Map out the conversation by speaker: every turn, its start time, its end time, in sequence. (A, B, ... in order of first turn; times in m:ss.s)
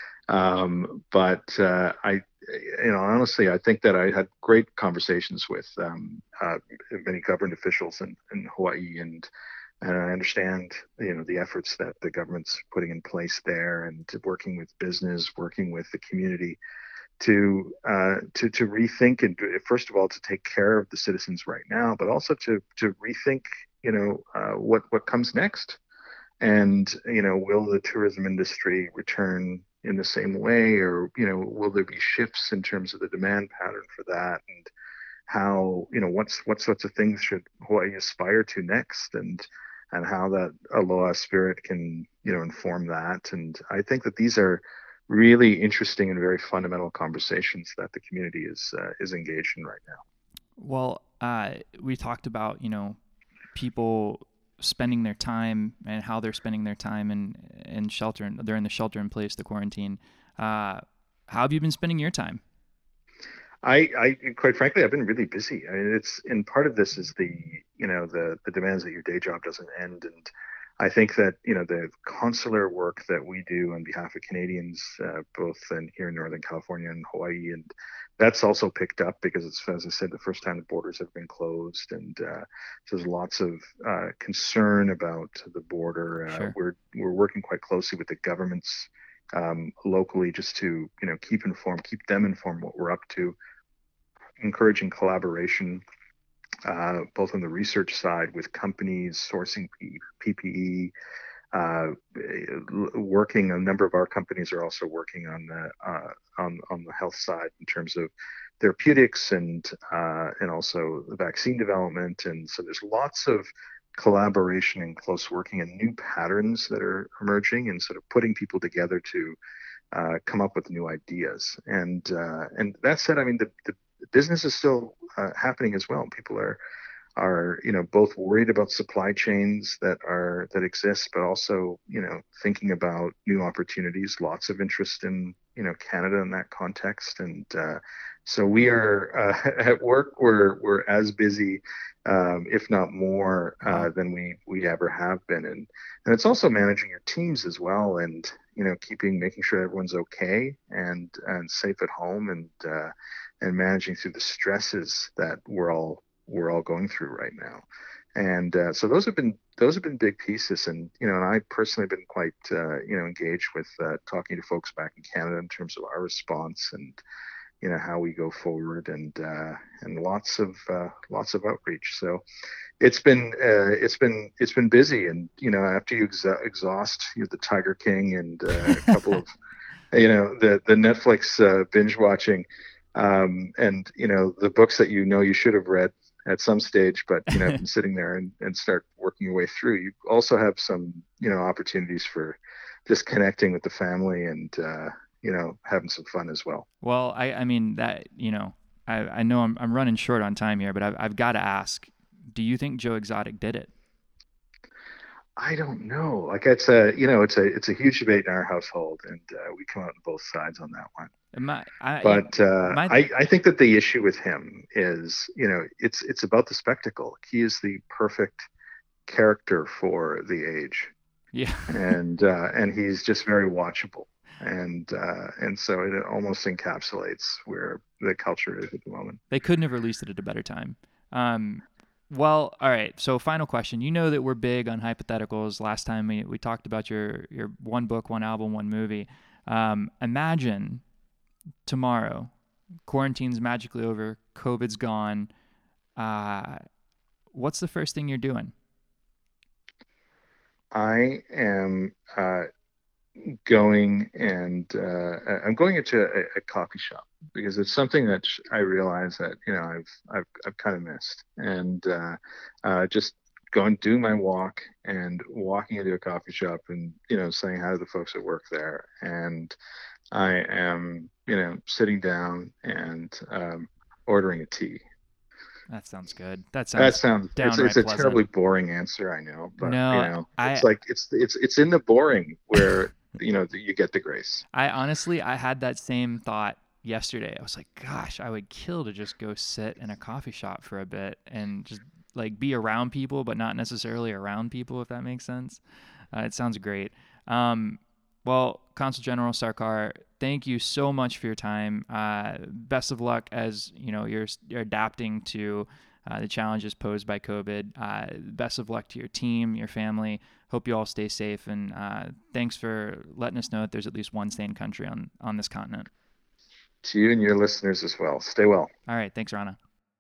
0:00.3-0:09.3 A
0:09.8-0:16.6 A
0:17.2-0:25.8 A
0:26.4-0:34.7 A
0:35.3-0:50.0 A
0:50.6-0:53.0 B
0:53.6-1:02.4 B
1:03.6-1:10.3 A
1:10.8-1:33.4 A
1:26.3-1:26.5 B
1:34.4-1:35.8 A
1:36.6-1:40.9 A
1:41.5-1:59.4 A
1:59.9-2:06.6 A
2:07.2-2:37.6 A
2:38.2-2:47.0 A
2:47.6-2:52.2 A
2:52.8-2:59.3 A
2:59.9-3:16.6 A
3:16.8-3:23.7 B
3:25.4-3:31.1 A
3:31.3-3:33.0 B
3:32.0-3:38.5 A
3:39.1-3:41.0 A
3:41.3-3:41.9 B
3:41.7-3:49.2 A
3:49.3-4:00.8 B
4:01.6-4:02.3 B
4:02.8-4:05.3 B
4:06.0-4:06.6 B
4:07.3-4:08.5 B
4:10.7-4:12.5 A
4:13.2-4:29.6 A
4:30.1-4:34.8 A
4:35.7-4:38.2 B
4:36.8-4:44.4 A
4:39.6-4:40.7 B
4:44.5-4:55.6 B
4:56.1-5:15.9 B
5:16.8-5:18.7 A
5:18.9-5:19.6 B